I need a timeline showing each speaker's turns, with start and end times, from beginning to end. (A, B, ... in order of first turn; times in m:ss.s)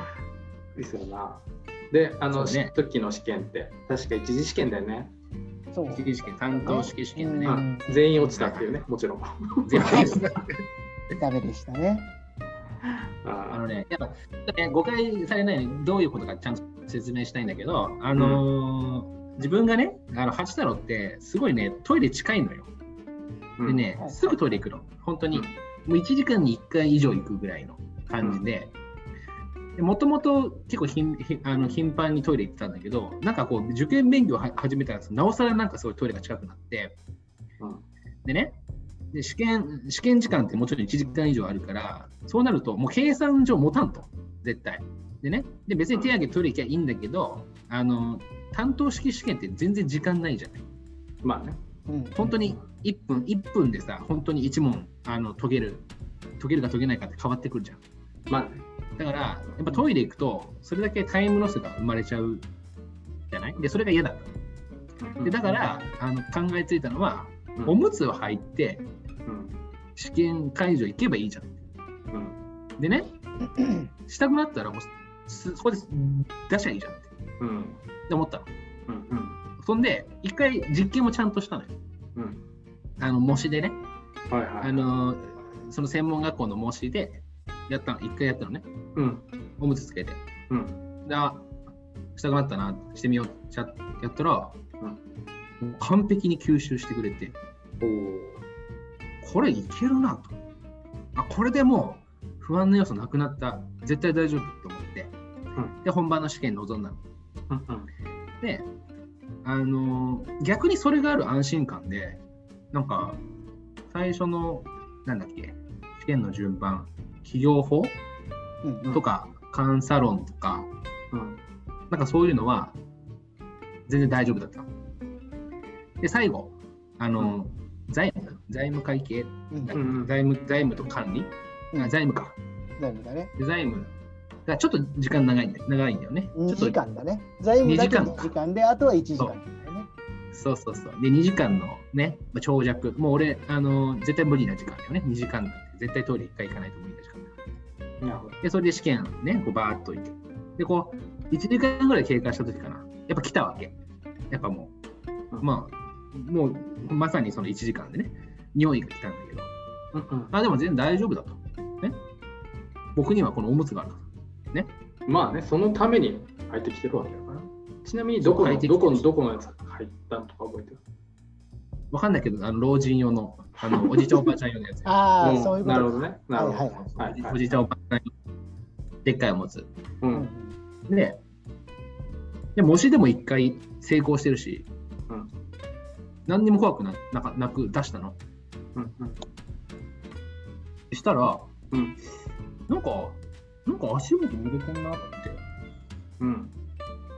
0:00.8-0:05.1 A
0:02.3-0:02.7 B
0:05.7-0:08.1 C
0:05.9-0:07.6 B
0:07.5-0:10.3 A
0:08.2-0:08.7 B
0:09.7-0:10.5 B
0:11.1-0:12.1 C
0:13.2-0:13.6 A
0:13.5-0:22.7 B
0:18.2-0:18.4 A
0:23.6-0:23.9 A
0:23.6-0:28.7 B
0:29.8-0:37.0 B
0:37.6-0:37.8 A
0:38.2-0:38.6 B
0:39.1-0:50.6 B
0:51.2-0:51.6 A
0:51.9-0:52.4 C
0:52.2-0:55.9 B
0:56.4-0:57.8 B
0:58.3-0:58.6 A
0:59.0-1:02.5 B
1:03.3-1:04.3 B
1:05.0-1:05.7 A
1:05.2-1:08.9 B
1:09.3-1:09.6 A
1:10.0-1:11.6 B
1:12.1-1:12.4 A
1:12.8-1:13.1 B
1:14.1-1:17.1 B
1:17.4-1:17.8 A
1:18.1-1:18.5 B
1:18.9-1:19.4 A
1:19.6-1:21.7 B
1:22.2-1:22.4 A
1:23.0-1:23.8 B
1:24.3-1:24.8 A
1:24.6-1:28.7 B
1:29.0-1:29.2 A
1:29.6-1:30.2 B
1:30.5-1:30.8 A
1:31.0-1:31.5 B
1:32.2-1:34.6 B
1:35.6-1:37.4 B
1:37.8-1:38.4 A
1:39.2-1:40.4 B
1:41.2-1:45.1 B
1:45.8-1:47.0 B
1:47.5-1:47.9 A
1:48.4-1:48.7 B
1:49.4-1:53.2 B
1:53.9-1:58.0 B
1:58.6-1:59.0 C
1:58.9-2:00.7 B
2:01.1-2:01.4 A
2:01.9-2:02.8 B
2:03.9-2:04.7 B
2:06.0-2:12.4 B
2:09.5-2:09.8 C
2:09.7-2:10.1 A
2:12.8-2:13.3 C
2:13.4-2:13.9 B
2:14.5-2:16.8 B
2:16.4-2:19.9 C
2:17.6-2:18.3 B
2:20.3-2:27.3 B
2:28.0-2:28.4 A
2:28.4-2:33.8 B
2:34.3-2:34.7 B
2:35.4-2:39.5 B
2:39.9-2:40.3 A
2:40.3-2:42.0 B
2:43.0-2:44.7 B
2:45.1-2:50.8 A
2:48.2-2:49.1 B
2:51.9-2:55.0 B
2:54.9-2:56.9 C
2:55.2-2:57.4 A
2:56.8-2:58.1 B
2:59.0-2:59.7 B
3:00.0-3:00.3 A
3:00.1-3:00.6 C
3:00.9-3:01.2 B
3:02.6-3:04.7 B
3:06.3-3:08.2 B
3:08.8-3:09.2 A
3:10.9-3:11.5 B
3:11.7-3:12.0 A
3:12.7-3:15.4 B
3:16.2-3:16.5 A